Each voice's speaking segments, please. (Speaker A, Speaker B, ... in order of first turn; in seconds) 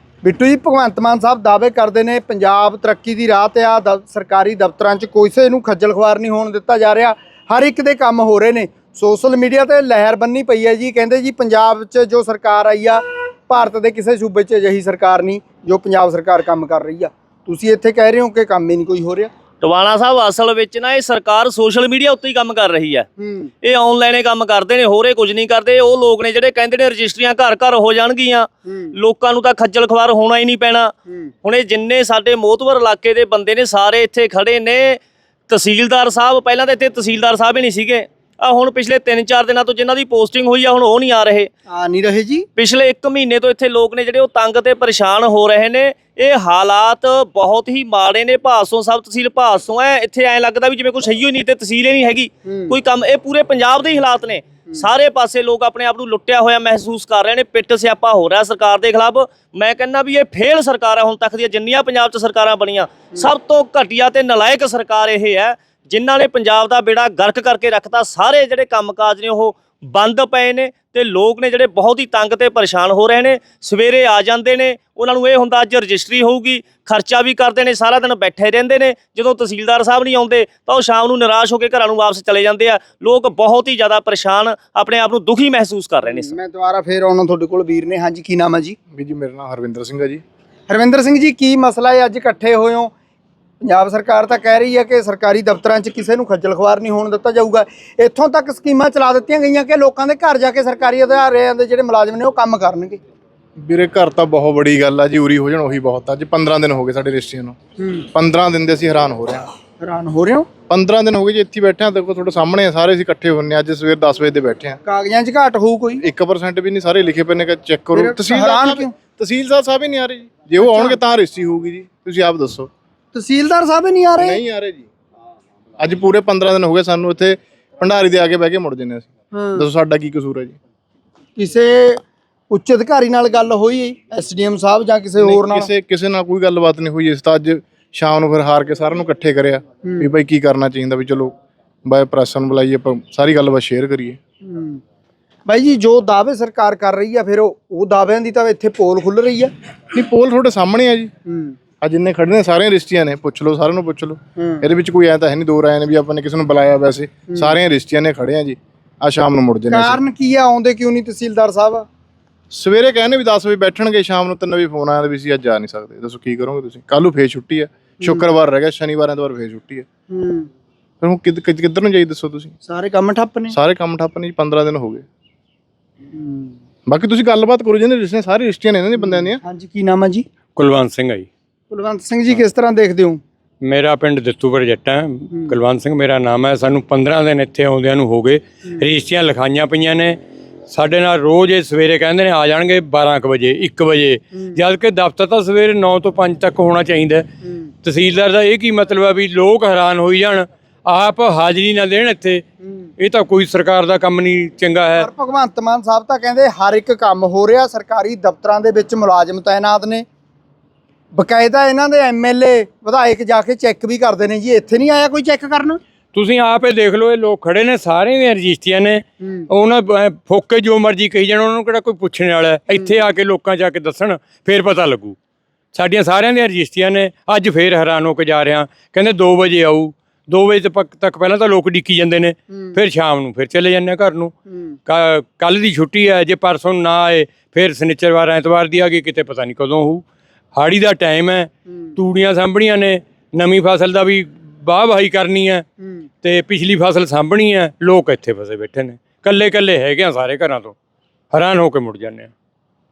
Speaker A: 0.2-19.3, 23.2-23.5, 28.6-28.9, 41.7-42.5, 52.5-52.7, 86.0-88.8, 90.7-92.9, 93.6-103.0, 107.8-108.1, 109.8-110.5, 114.8-116.0, 117.9-118.9, 120.6-121.0, 123.1-124.4, 129.3-129.7, 131.4-135.7, 139.8-140.1, 144.4-144.8, 145.5-149.5, 151.3-151.6, 154.4-154.7, 159.7-161.9, 168.0-168.3, 170.1-170.5, 172.7-173.6, 176.1-176.6, 179.0-180.2, 181.7-183.2, 185.3-185.6, 205.0-210.1, 211.1-215.8, 222.7-223.1
Speaker B: 19.6-23.1, 23.6-30.9, 31.4-41.5, 42.6-86.3
Speaker C: 88.9-90.2, 103.6-107.6, 108.1-109.5, 110.7-114.8, 116.0-122.7, 124.2-124.9, 125.8-130.6, 135.2-144.2, 149.9-151.1, 151.8-160.0, 162.5-169.9, 171.0-172.6, 173.5-175.1, 176.9-179.4
Speaker D: 180.6-181.3, 183.6-197.3, 197.8-202.4, 203.0-205.1, 216.1-225.2, 225.7-245.7, 246.2-250.8, 251.3-252.3